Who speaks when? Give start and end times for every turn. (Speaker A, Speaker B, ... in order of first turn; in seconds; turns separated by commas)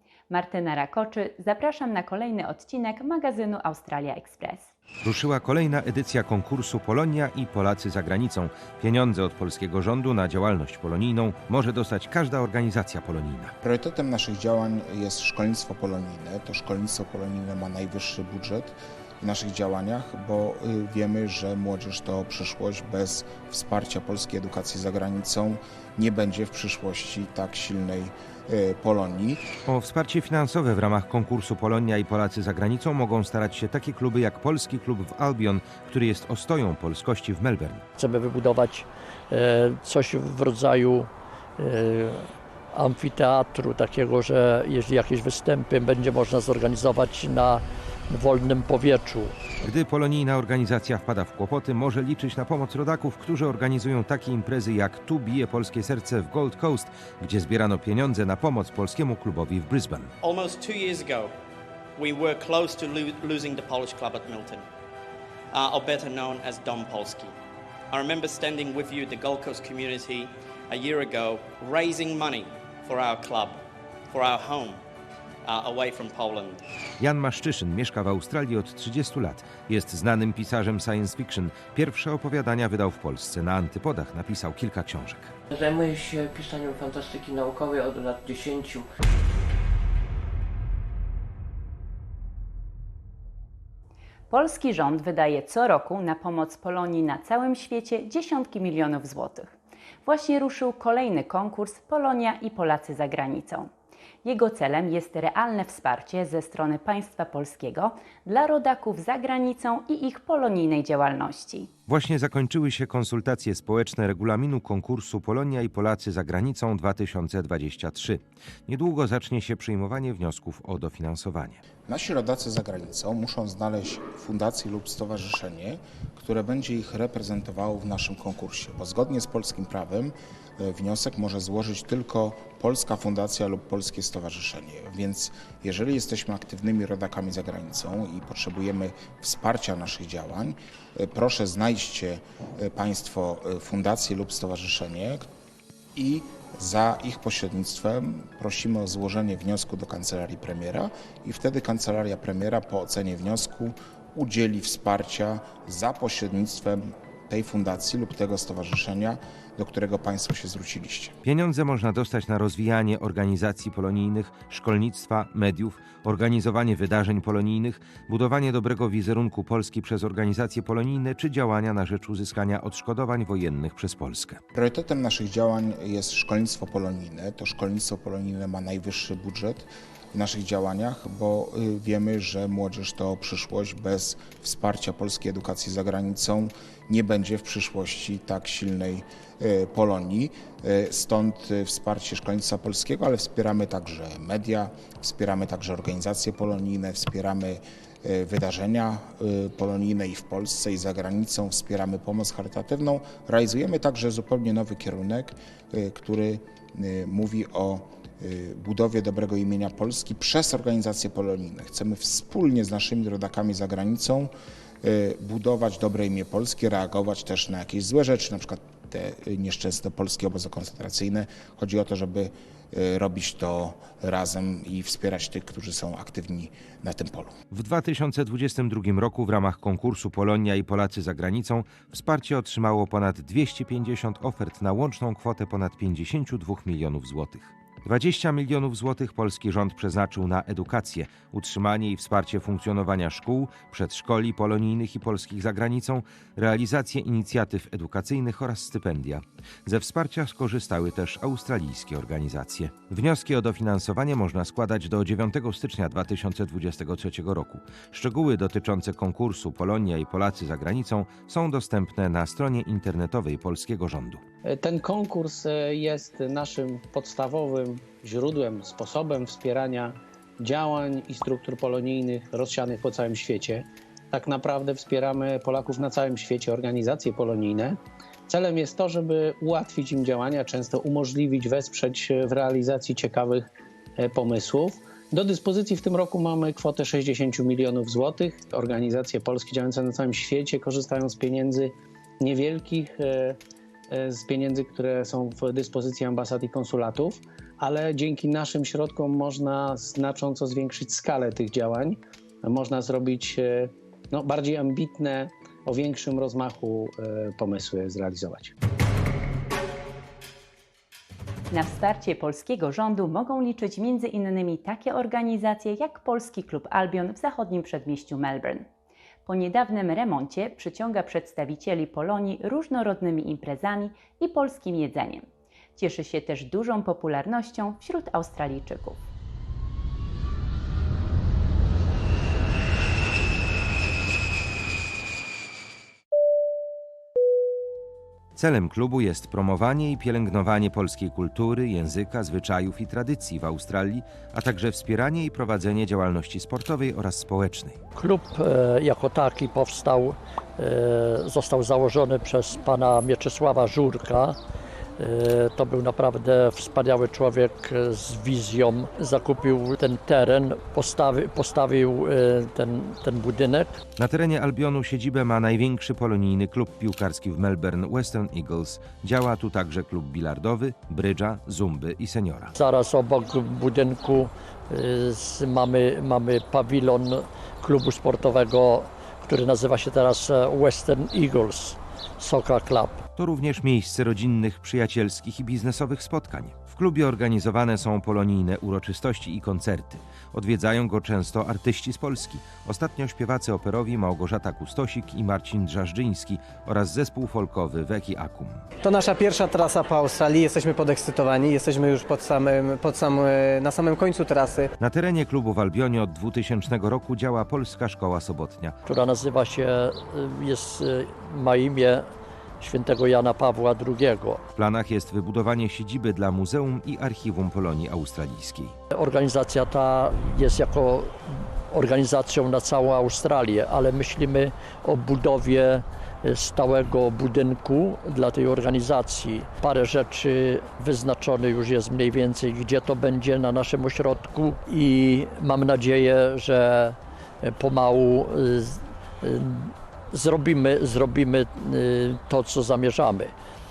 Speaker A: 0.3-4.7, Speaker B: 5.0-13.5, Speaker C: 13.6-29.5, Speaker B: 29.6-37.8, Speaker D: 38.0-49.4, Speaker B: 49.6-60.1, Speaker E: 60.2-61.3, Speaker E: 62.0-64.6, Speaker E: 65.5-67.3, Speaker E: 67.9-73.6, Speaker E: 74.1-74.8, Speaker E: 75.4-76.6, Speaker B: 77.0-85.3, Speaker F: 85.5-88.9, Speaker A: 94.3-99.5, Speaker A: 100.0-103.7, Speaker A: 104.2-111.7, Speaker B: 111.9-121.6, Speaker C: 121.9-145.2, Speaker C: 145.9-161.1, Speaker B: 161.2-174.4, Speaker C: 174.5-227.3, Speaker B: 227.5-264.2, Speaker G: 264.4-283.4, Speaker G: 284.0-293.4, Speaker G: 293.9-308.5, Speaker A: 311.6-318.6, Speaker A: 319.3-325.2, Speaker A: 325.8-329.0, Speaker B: 338.4-347.8, Speaker D: 347.9-354.4, Speaker D: 355.0-363.8, Speaker B: 364.0-372.5, Speaker D: 372.5-383.0, Speaker B: 383.2-398.6, Speaker H: 398.8-404.7, Speaker B: 404.8-408.8, Speaker D: 408.9-412.1, Speaker D: 412.6-414.4, Speaker B: 414.6-418.7, Speaker D: 418.9-443.3